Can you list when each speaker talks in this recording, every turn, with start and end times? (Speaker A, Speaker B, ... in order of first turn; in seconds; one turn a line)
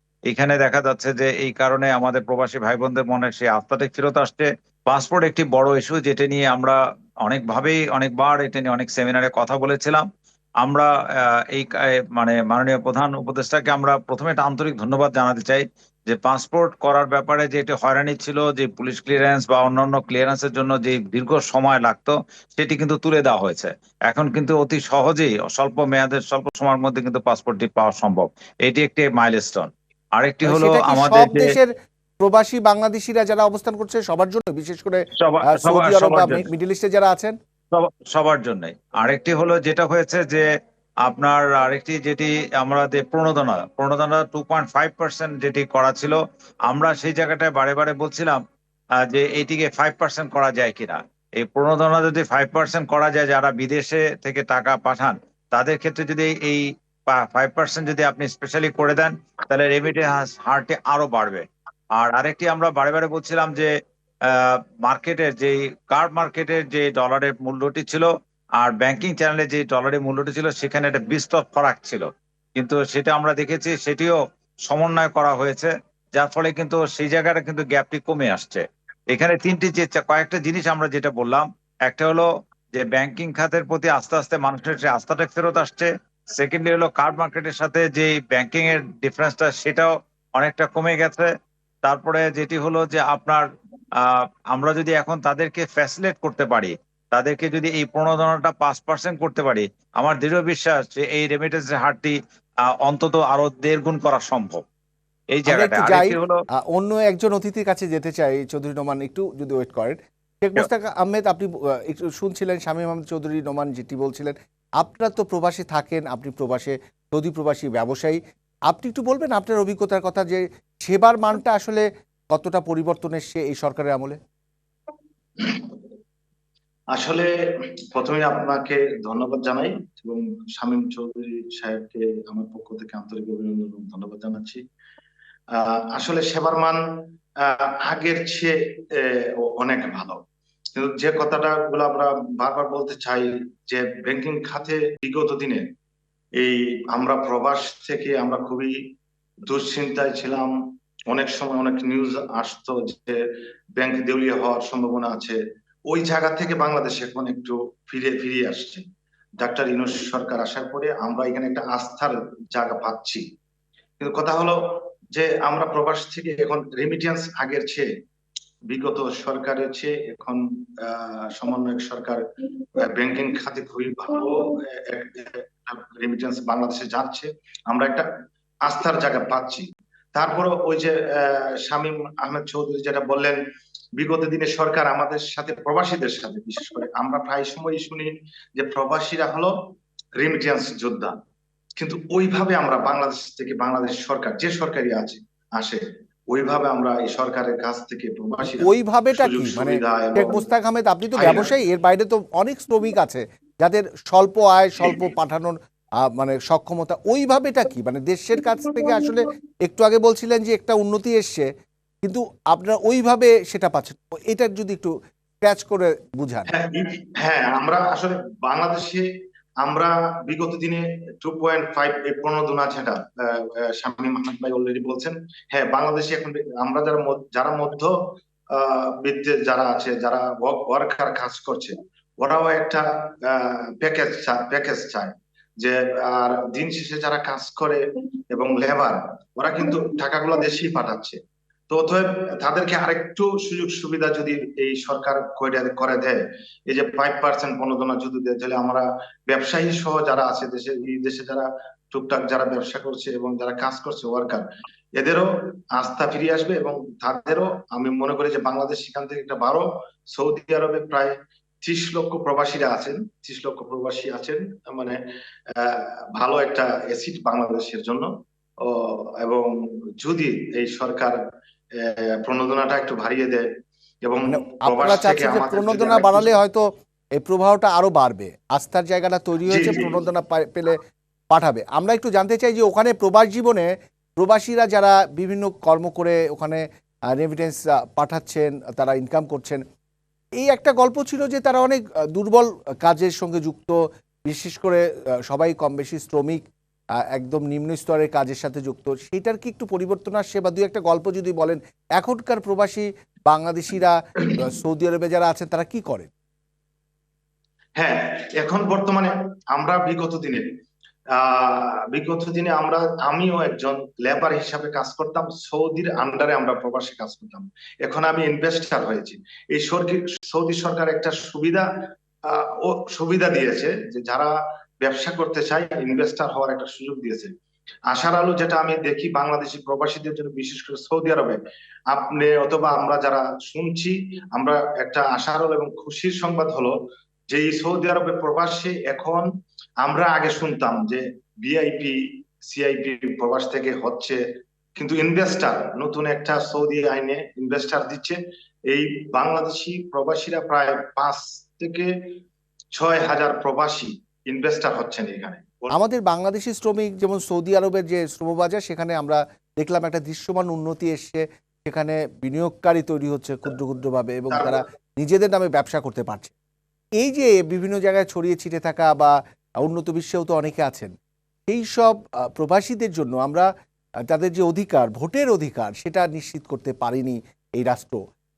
Speaker A: 0.3-10.1
Speaker A: 10.6-10.9
Speaker A: 11.5-31.5
Speaker B: 30.4-37.3
Speaker A: 35.2-36.5
Speaker A: 37.7-40.5
Speaker A: 41.0-48.4
Speaker A: 49.0-61.4
Speaker A: 62.0-63.7
Speaker A: 64.3-91.3
Speaker A: 91.8-93.4
Speaker A: 94.0-102.2
Speaker A: 102.7-104.6
Speaker A: 105.3-106.4
Speaker B: 105.5-124.2
Speaker C: 125.4-125.8
Speaker C: 126.9-134.6
Speaker C: 135.5-136.8
Speaker C: 137.4-140.2
Speaker C: 140.7-145.7
Speaker C: 146.4-148.9
Speaker C: 149.5-150.6
Speaker C: 151.1-153.2
Speaker C: 153.8-158.8
Speaker C: 159.4-163.2
Speaker C: 164.0-167.9
Speaker C: 168.7-172.2
Speaker C: 172.8-178.1
Speaker C: 178.6-183.4
Speaker C: 184.0-189.6
Speaker C: 190.2-191.2
Speaker C: 191.8-200.4
Speaker B: 198.5-211.5
Speaker C: 201.2-201.5
Speaker B: 212.0-216.5
Speaker C: 216.5-219.1
Speaker C: 219.6-241.2
Speaker C: 241.7-265.0
Speaker C: 265.6-268.1
Speaker C: 268.6-271.2
Speaker C: 271.8-273.5
Speaker C: 274.0-276.3
Speaker B: 274.3-276.6
Speaker B: 277.2-280.8
Speaker C: 279.5-279.9
Speaker B: 281.3-289.6
Speaker B: 290.4-296.4
Speaker B: 297.1-306.1
Speaker C: 307.8-310.6
Speaker C: 311.1-321.7
Speaker C: 322.3-327.3
Speaker C: 327.9-336.8
Speaker C: 337.3-339.3
Speaker C: 339.8-344.2
Speaker C: 344.8-351.9
Speaker C: 352.8-355.7
Speaker B: 355.7-366.3
Speaker C: 364.3-364.6
Speaker B: 367.0-370.9
Speaker B: 371.5-373.5
Speaker B: 374.1-378.0